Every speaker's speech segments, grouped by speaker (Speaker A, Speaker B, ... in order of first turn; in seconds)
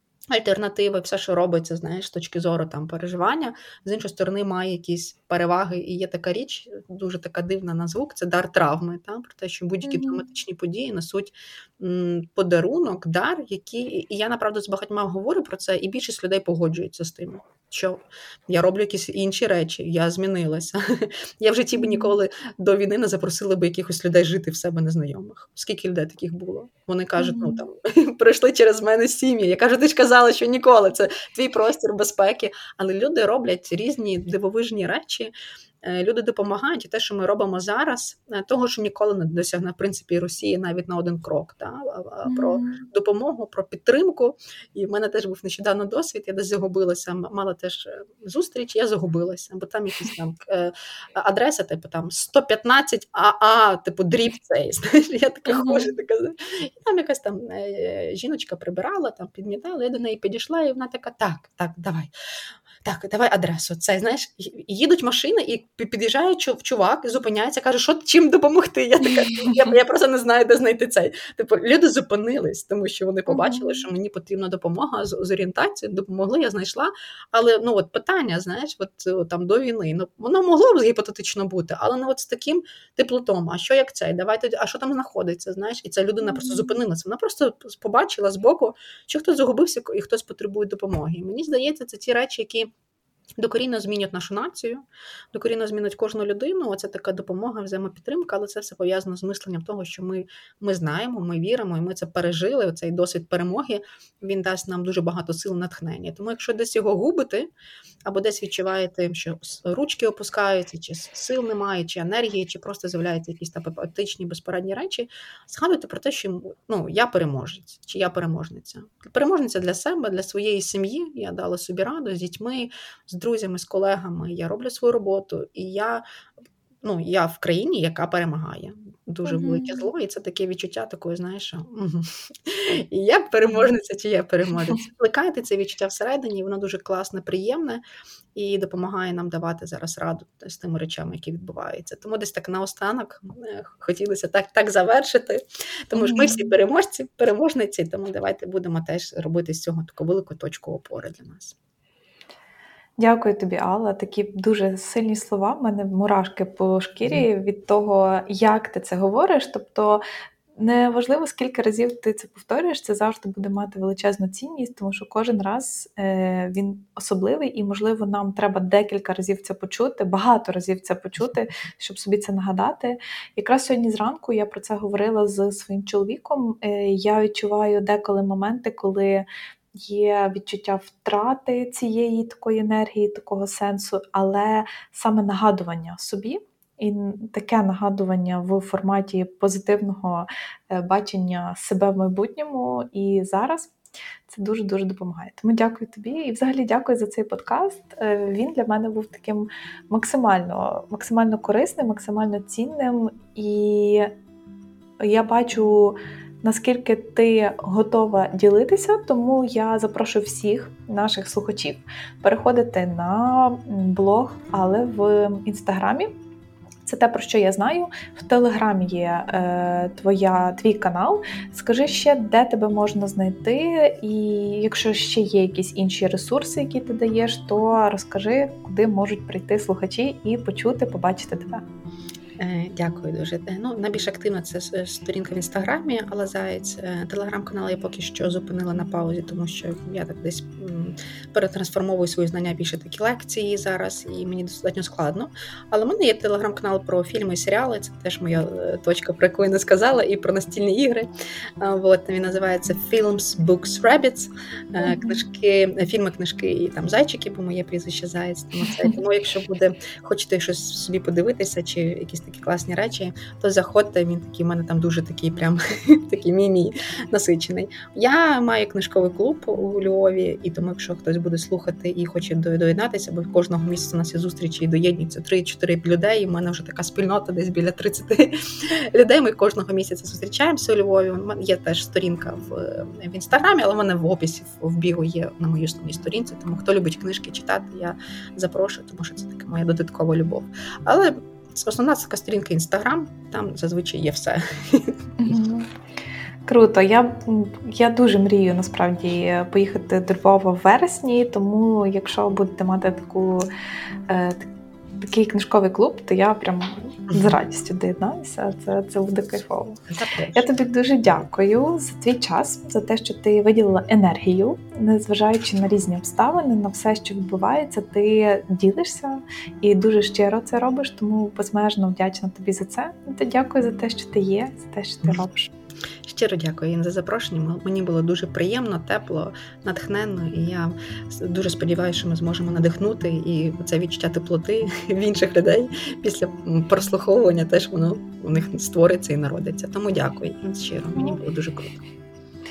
Speaker A: 0.3-35.3, 35.8-62.1, 62.8-92.7, 93.4-107.5, 108.0-126.0, 126.8-137.8, 138.3-151.6, 232.4-251.1, 251.6-295.3, 309.9-310.5, 326.0-341.8
Speaker B: 9.8-10.2, 21.8-22.2, 27.2-27.6, 42.2-42.9, 55.5-55.9, 73.3-73.9, 86.2-86.8, 129.2-129.9, 145.9-146.5, 153.0-160.0, 160.6-179.2, 179.8-193.7, 194.3-204.1, 205.0-216.2, 216.8-231.6, 254.8-255.2, 295.2-295.7, 296.5-303.5, 304.1-304.4, 305.0-309.8, 310.3-325.5